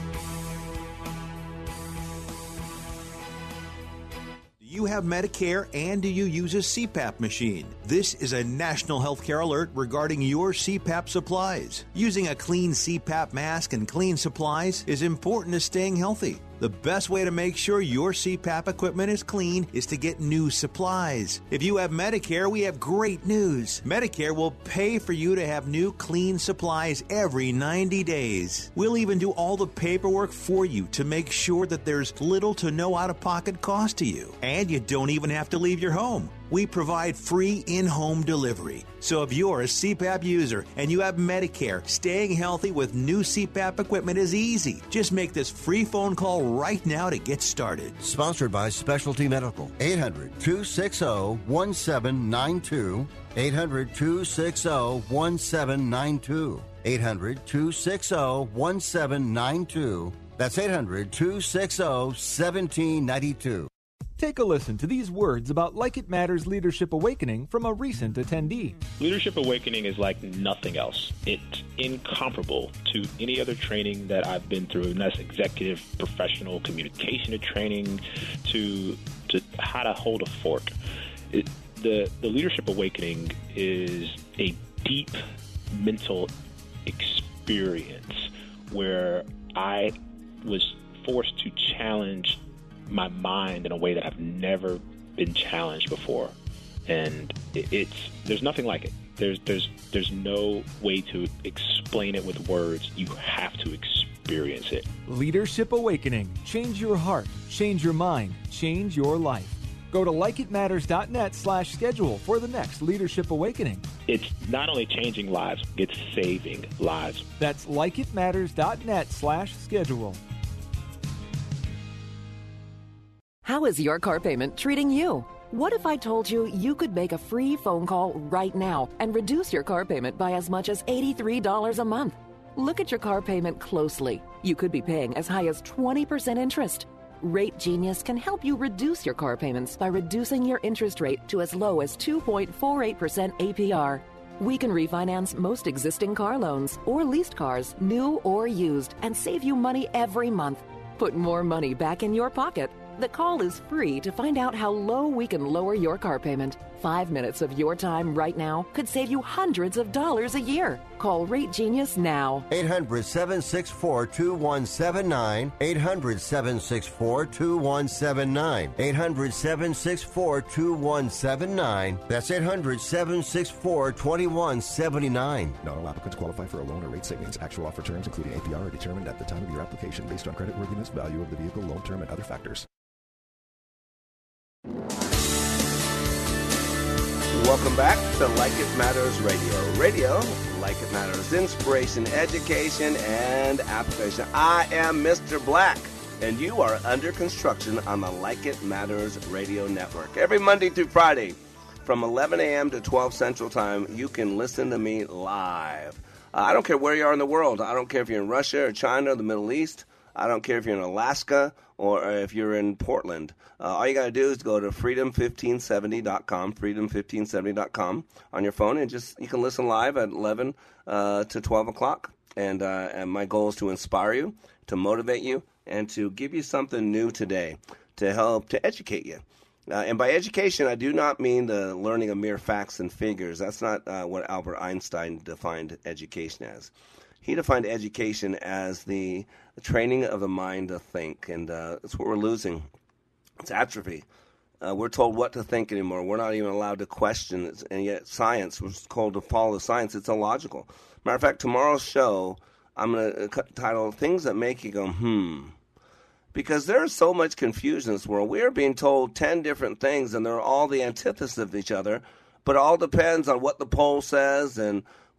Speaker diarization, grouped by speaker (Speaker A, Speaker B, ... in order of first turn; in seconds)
Speaker A: 4.6-48.0
Speaker B: 48.0-63.7, 162.5-175.6
Speaker C: 64.2-68.8, 105.1-113.9, 117.4-120.2
Speaker D: 69.0-80.7, 81.3-85.2, 85.7-86.3, 86.8-96.3, 96.9-104.9, 114.1-117.2
Speaker E: 123.4-162.4
Speaker F: 175.6-182.7
Speaker G: 187.3-236.7, 237.2-242.7, 243.4-244.1, 244.6-255.5, 256.3-264.8